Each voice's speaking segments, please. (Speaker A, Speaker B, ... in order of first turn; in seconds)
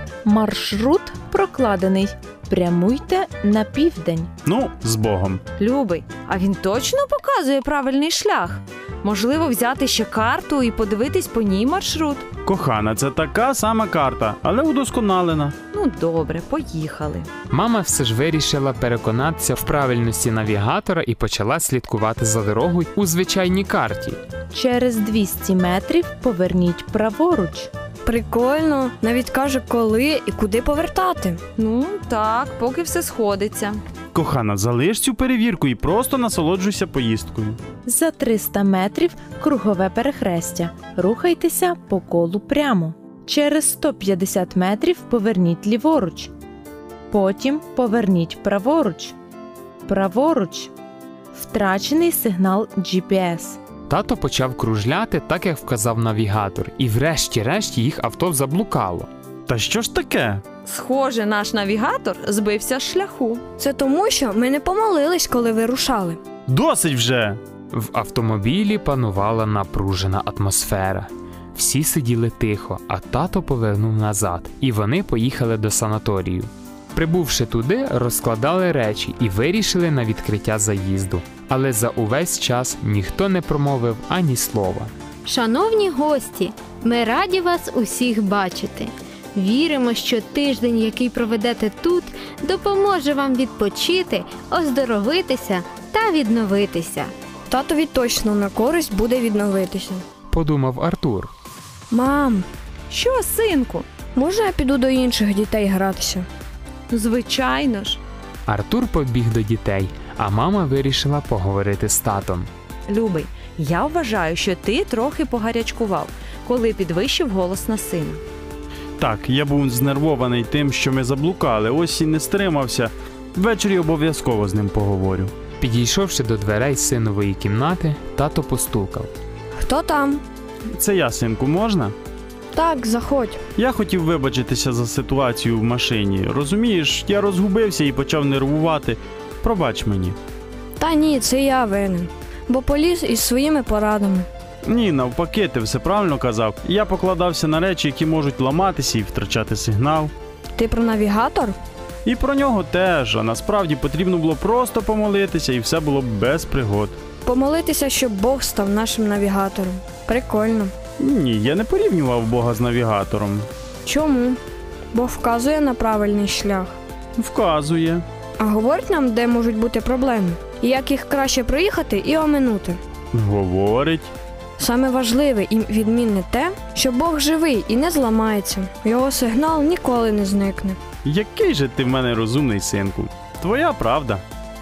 Speaker A: 0.2-4.3, 24.5-27.7, 37.9-46.3, 47.1-49.1, 49.9-50.7, 51.3-53.6
Speaker B: 4.5-5.4, 12.4-15.6, 34.1-37.6, 59.5-60.4, 66.5-67.4, 119.0-125.3, 130.7-131.9, 133.6-140.2, 144.7-150.1, 152.1-157.0, 161.0-163.5, 167.2-168.1, 173.1-174.1, 181.1-184.2
Speaker C: 5.6-12.2, 15.7-17.3, 31.6-33.8, 60.7-63.4, 102.9-103.9, 106.9-108.0, 112.9-118.2
Speaker D: 17.5-24.2, 53.9-59.1, 67.7-84.9, 100.3-101.3, 108.5-112.5, 125.6-129.1
Speaker E: 28.0-31.4, 63.6-66.2, 97.5-100.0, 101.9-102.5, 104.2-106.3, 129.6-130.2, 132.5-133.4, 140.8-144.3, 150.6-151.6, 157.2-160.7, 163.8-164.4, 164.9-166.8, 168.4-172.8, 174.6-180.8
Speaker F: 85.2-97.1